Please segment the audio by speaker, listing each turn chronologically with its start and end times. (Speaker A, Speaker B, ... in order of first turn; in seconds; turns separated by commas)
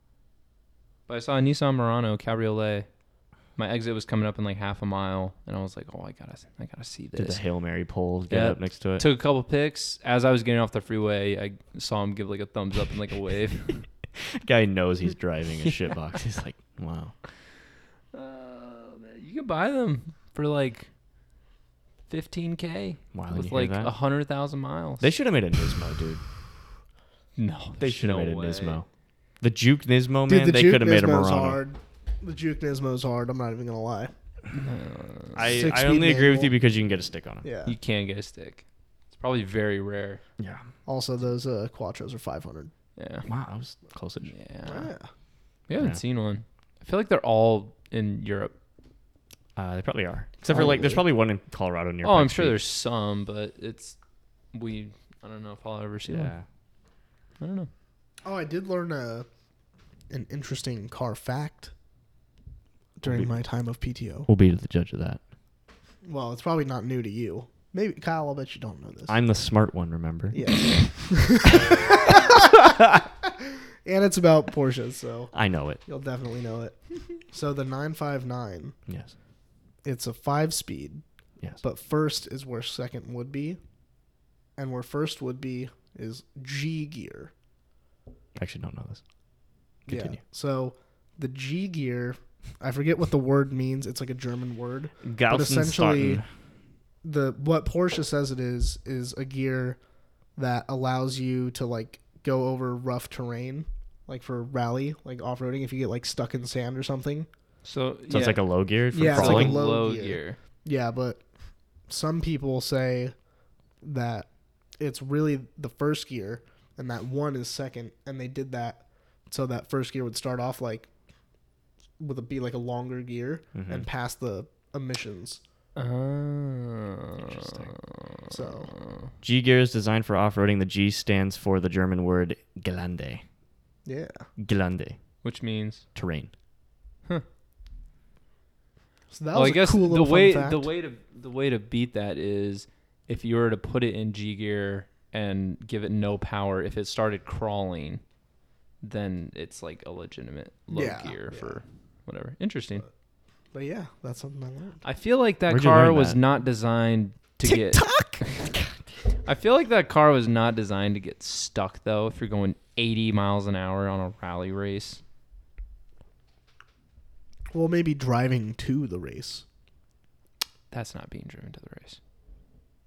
Speaker A: 1.1-2.9, Speaker A: 3.5-7.4, Speaker B: 7.2-9.0, Speaker A: 8.3-13.8, Speaker B: 14.2-17.1, Speaker A: 18.1-20.9, Speaker A: 22.1-25.1, Speaker B: 23.1-23.9, Speaker B: 25.0-26.2, Speaker A: 27.4-28.8, Speaker B: 27.8-28.9, Speaker B: 29.4-31.6, Speaker C: 30.3-34.1, Speaker A: 34.5-35.5, Speaker B: 35.3-37.5, Speaker C: 35.4-36.5, Speaker C: 37.4-37.7, Speaker A: 37.6-40.2, Speaker B: 40.4-40.7, Speaker C: 40.9-42.7, Speaker A: 43.0-43.3, Speaker B: 43.2-44.3, Speaker A: 44.2-44.9, Speaker C: 44.6-45.1, Speaker A: 45.7-48.5, Speaker B: 49.5-52.6, Speaker C: 50.5-51.0, Speaker A: 52.0-54.0, Speaker A: 54.5-56.3, Speaker B: 56.1-56.4, Speaker A: 57.4-57.7, Speaker C: 58.2-59.3, Speaker C: 60.1-61.7, Speaker C: 63.0-64.3, Speaker B: 63.0-63.3, Speaker B: 64.3-65.2, Speaker C: 66.0-69.2, Speaker B: 69.1-70.4, Speaker C: 70.3-72.8, Speaker B: 71.5-71.9, Speaker C: 73.8-75.3, Speaker B: 75.3-75.8, Speaker C: 75.8-78.8, Speaker B: 78.9-79.1, Speaker C: 79.8-81.0, Speaker C: 81.6-83.6, Speaker C: 84.6-87.3, Speaker B: 88.3-89.0, Speaker B: 89.8-90.2, Speaker C: 89.9-96.2, Speaker B: 95.0-96.2, Speaker C: 97.0-99.8, Speaker C: 100.3-107.3, Speaker A: 107.6-110.4, Speaker B: 108.1-109.6, Speaker C: 108.9-111.2, Speaker C: 111.9-113.1, Speaker C: 113.8-120.9, Speaker C: 122.0-125.4, Speaker B: 123.5-123.9, Speaker A: 125.8-129.1, Speaker B: 127.3-127.7, Speaker C: 128.3-128.7, Speaker B: 129.2-133.2, Speaker C: 133.8-134.3, Speaker B: 134.4-135.0, Speaker A: 135.2-135.8, Speaker B: 135.9-136.3, Speaker C: 139.1-140.7, Speaker A: 139.3-148.0, Speaker A: 148.8-152.8, Speaker C: 150.7-151.6, Speaker C: 153.5-154.8, Speaker A: 154.8-158.3, Speaker B: 155.5-156.2, Speaker C: 157.5-158.2, Speaker A: 159.2-165.0, Speaker C: 167.5-169.4, Speaker A: 170.7-172.0